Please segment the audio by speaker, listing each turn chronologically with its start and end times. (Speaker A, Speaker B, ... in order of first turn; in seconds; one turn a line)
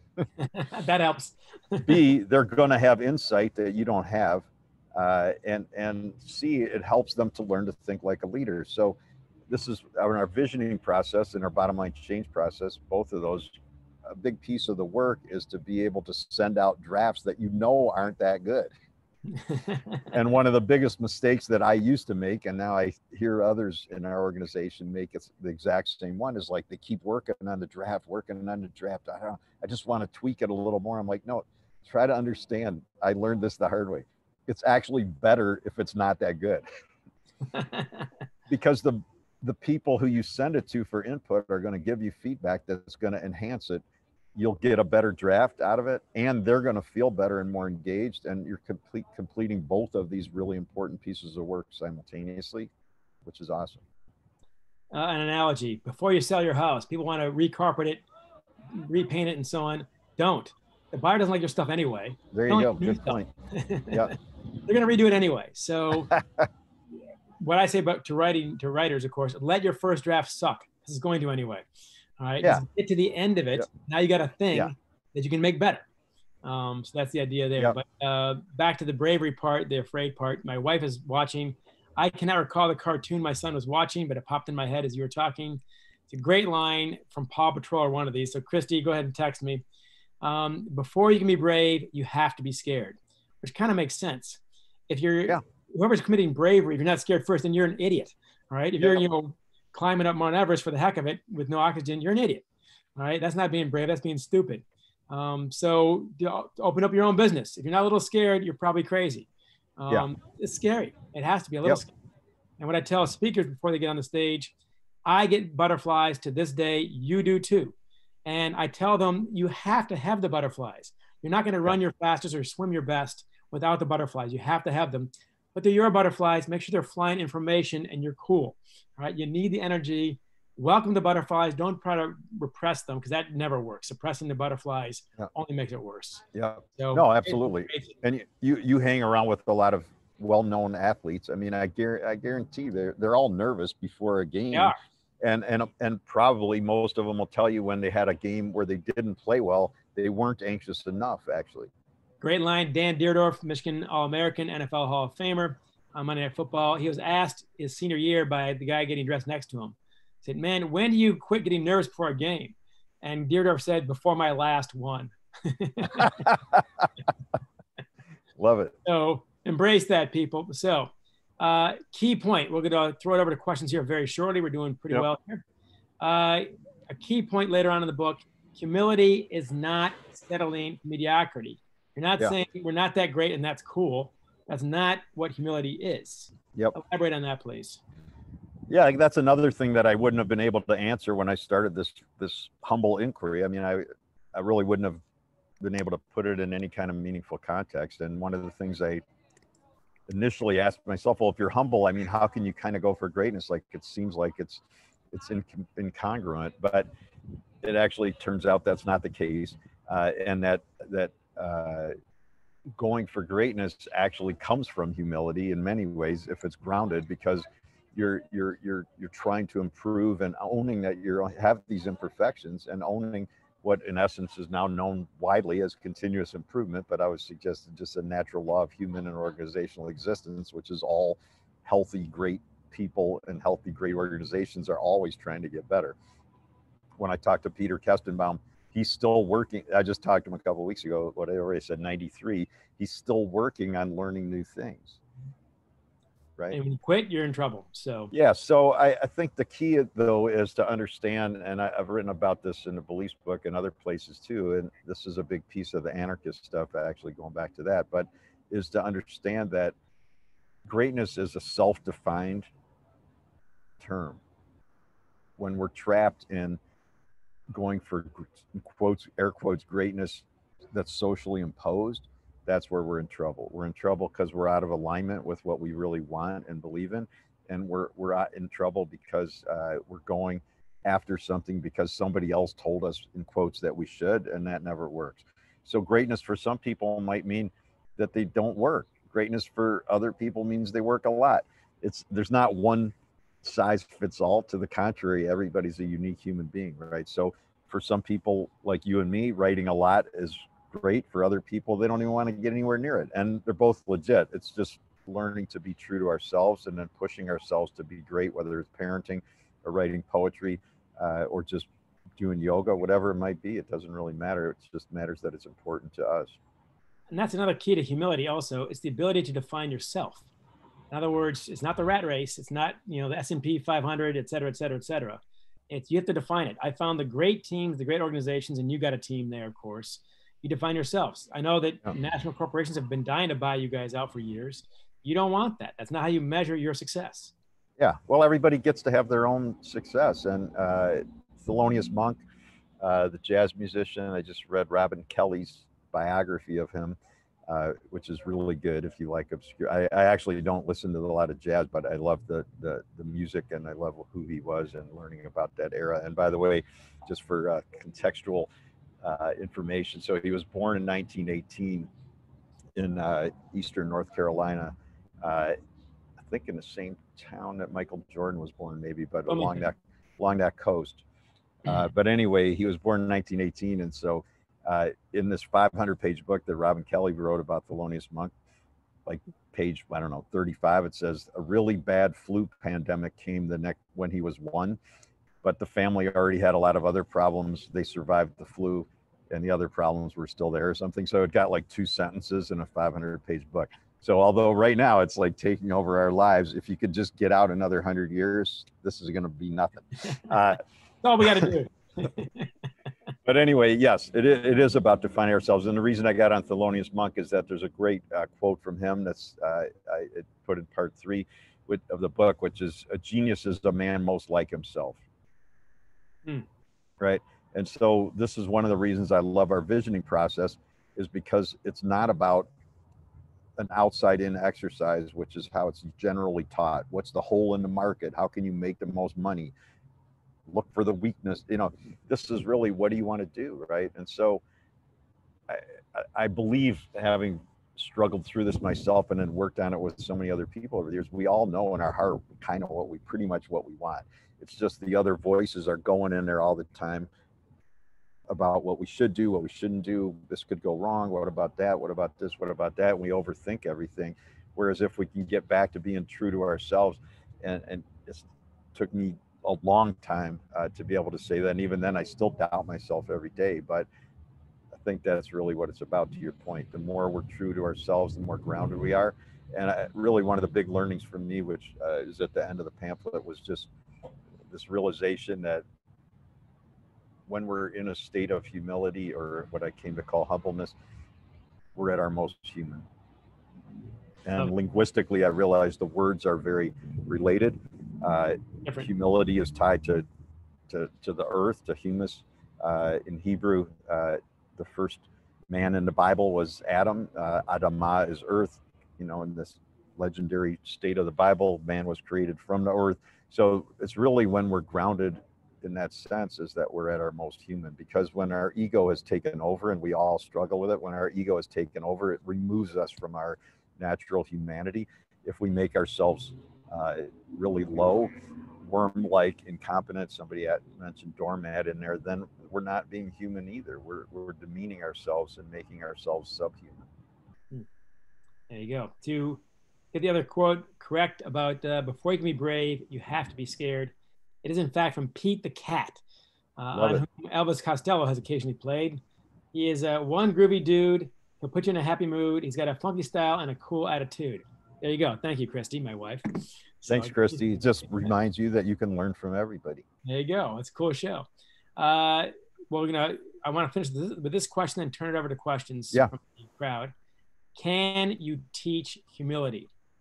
Speaker A: 0.4-2.0
Speaker B: 1.9-9.0
Speaker B: 9.5-18.7
Speaker A: 19.3-20.1
Speaker B: 20.1-36.6
Speaker A: 37.5-38.1
Speaker B: 38.5-43.8
Speaker B: 44.4-52.7
Speaker B: 53.2-53.8
Speaker A: 54.9-58.0
Speaker A: 58.7-64.2
Speaker B: 62.3-63.3
Speaker A: 64.7-66.2
Speaker B: 66.1-66.5
Speaker A: 67.4-71.7
Speaker A: 72.2-75.8
Speaker A: 76.4-89.6
Speaker A: 90.2-102.4
Speaker A: 103.0-111.9
Speaker A: 112.6-114.5
Speaker A: 115.0-136.2
Speaker B: 136.3-151.7
Speaker A: 136.8-137.9
Speaker A: 152.2-166.3
Speaker B: 166.2-166.6
Speaker B: 168.4-168.8
Speaker A: 168.8-175.4
Speaker A: 176.0-187.8
Speaker B: 188.7-195.0
Speaker B: 195.6-199.0
Speaker B: 200.1-206.9
Speaker B: 207.6-211.9
Speaker B: 212.8-236.0
Speaker B: 237.0-245.0
Speaker A: 246.5-248.1
Speaker B: 248.1-259.7
Speaker B: 260.7-262.5
Speaker B: 263.8-264.2
Speaker B: 265.4-266.6
Speaker B: 267.5-316.4
Speaker A: 317.1-320.2
Speaker A: 320.9-337.3
Speaker B: 337.8-342.2
Speaker B: 342.8-347.0
Speaker B: 347.5-358.5
Speaker B: 359.0-361.9
Speaker B: 362.8-365.6
Speaker B: 366.2-371.0
Speaker A: 369.3-369.6
Speaker B: 371.6-378.3
Speaker B: 379.1-384.8
Speaker B: 385.4-400.6
Speaker A: 401.0-402.5
Speaker B: 401.2-401.5
Speaker B: 403.2-415.0
Speaker B: 417.0-422.5
Speaker B: 423.6-429.5
Speaker B: 430.5-434.4
Speaker B: 435.5-447.1
Speaker B: 448.3-463.9
Speaker B: 464.7-473.7
Speaker B: 474.5-475.6
Speaker B: 477.3-480.8
Speaker B: 481.8-482.9
Speaker B: 484.2-490.1
Speaker B: 490.7-526.9
Speaker A: 528.5-529.4
Speaker A: 529.9-533.9
Speaker A: 534.4-536.0
Speaker A: 536.6-539.0
Speaker B: 536.7-537.0
Speaker A: 539.5-546.3
Speaker A: 546.8-547.1
Speaker B: 546.9-549.8
Speaker A: 550.0-551.3
Speaker A: 551.8-556.9
Speaker A: 557.6-559.7